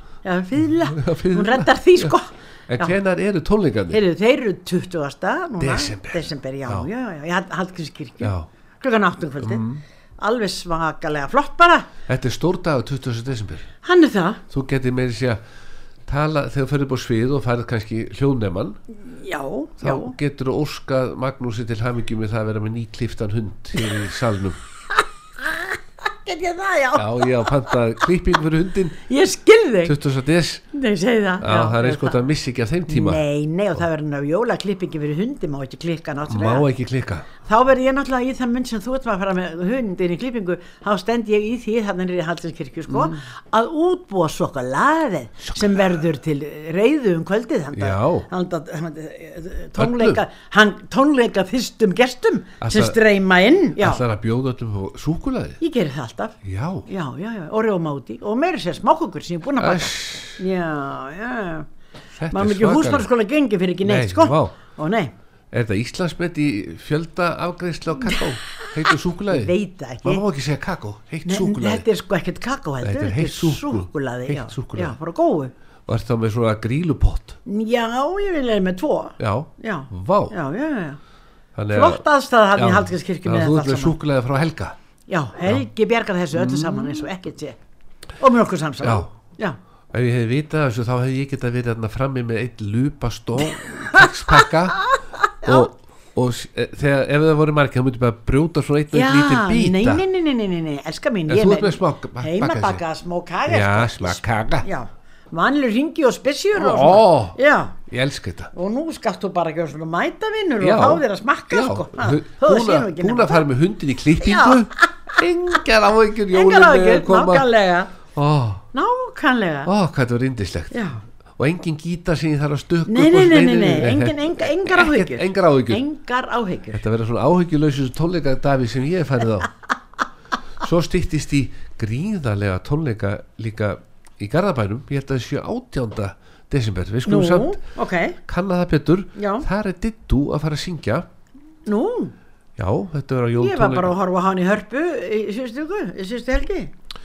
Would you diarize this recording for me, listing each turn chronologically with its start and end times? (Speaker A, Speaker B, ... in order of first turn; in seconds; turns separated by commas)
Speaker A: 0.2-3.0, Speaker B: 0.9-2.1, Speaker B: 2.7-4.0, Speaker A: 3.9-9.6, Speaker B: 5.6-6.9, Speaker B: 8.2-8.5, Speaker B: 9.4-9.8, Speaker A: 10.2-11.9, Speaker B: 12.1-13.7, Speaker A: 13.8-14.4, Speaker B: 14.5-15.4, Speaker B: 16.1-18.8, Speaker A: 19.1-20.1, Speaker B: 19.8-24.6, Speaker A: 25.0-27.6, Speaker B: 26.9-29.0, Speaker A: 29.1-29.9, Speaker B: 29.8-30.6, Speaker A: 30.7-32.2, Speaker B: 31.4-33.2, Speaker A: 32.9-36.7, Speaker B: 36.3-37.3, Speaker A: 37.5-54.0, Speaker B: 42.9-43.2, Speaker B: 45.5-45.8, Speaker B: 47.7-48.3, Speaker B: 49.8-50.2, Speaker B: 52.6-53.0, Speaker B: 53.8-55.6, Speaker A: 55.6-61.7, Speaker B: 56.4-56.9, Speaker B: 59.6-60.4, Speaker B: 62.2-63.1, Speaker A: 62.3-65.1, Speaker B: 63.8-64.5, Speaker B: 65.5-71.8, Speaker A: 68.0-70.2, Speaker A: 71.2-75.5, Speaker B: 72.8-75.0, Speaker B: 75.9-77.4, Speaker A: 77.5-81.0, Speaker B: 79.2-80.3, Speaker B: 81.5-82.0, Speaker A: 81.7-84.0, Speaker B: 82.5-84.8, Speaker A: 85.1-87.6, Speaker B: 86.3-87.1, Speaker A: 88.2-89.6, Speaker B: 88.8-89.1, Speaker B: 89.9-94.8, Speaker A: 93.5-95.7, Speaker B: 95.4-100.0, Speaker A: 98.9-107.8, Speaker B: 101.3-102.8, Speaker B: 103.5-104.7, Speaker B: 106.5-108.5, Speaker A: 108.5-113.5, Speaker B: 110.6-117.5, Speaker A: 114.2-114.9, Speaker A: 116.3-117.9, Speaker B: 118.1-118.6, Speaker A: 118.7-119.7, Speaker B: 119.7-120.8, Speaker A: 120.7-121.0, Speaker B: 121.4-125.8, Speaker A: 122.9-126.8, Speaker B: 126.7-129.5, Speaker B: 130.6-137.6, Speaker A: 137.0-138.2, Speaker B: 138.2-141.1, Speaker A: 139.2-139.4, Speaker A: 141.7-142.1, Speaker B: 142.6-143.9, Speaker A: 143.4-146.7